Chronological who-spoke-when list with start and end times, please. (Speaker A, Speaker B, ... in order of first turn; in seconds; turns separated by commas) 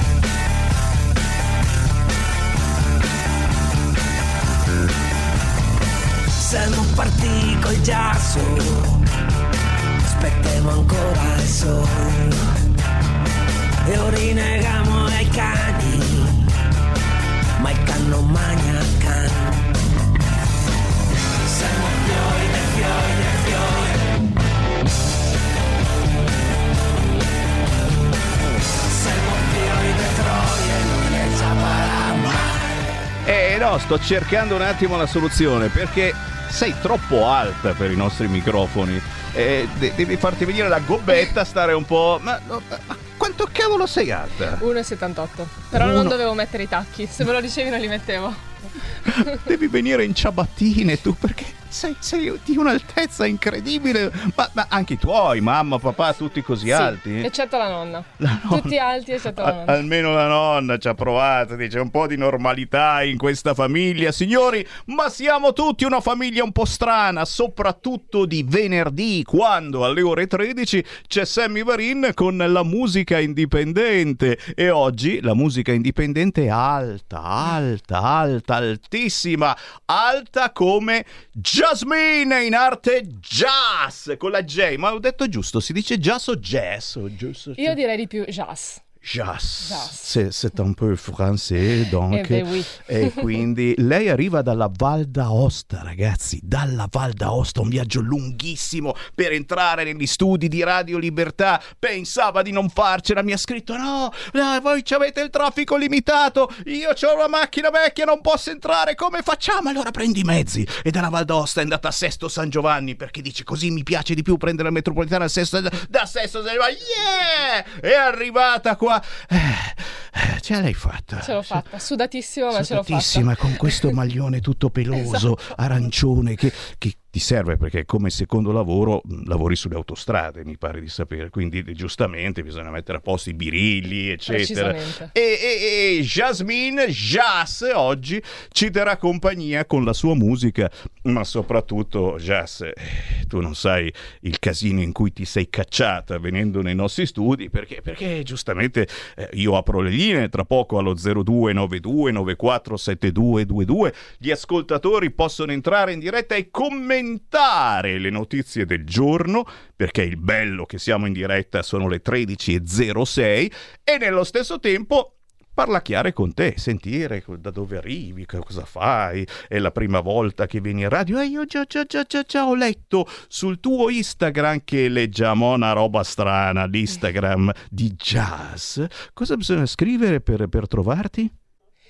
Speaker A: 6.4-9.0, Speaker A: 10.1-12.4, Speaker A: 13.8-16.4, Speaker A: 17.6-19.6, Speaker A: 21.5-23.6, Speaker A: 29.0-32.4, Speaker B: 33.2-44.6, Speaker C: 44.6-48.5, Speaker B: 45.7-46.2, Speaker B: 49.1-57.3, Speaker C: 56.6-59.8, Speaker B: 58.2-87.8, Speaker C: 87.6-88.8, Speaker B: 89.0-121.6, Speaker C: 89.6-90.1, Speaker C: 92.1-93.2, Speaker C: 121.2-123.9, Speaker B: 122.5-181.3, Speaker C: 125.0-125.2, Speaker C: 134.3-135.1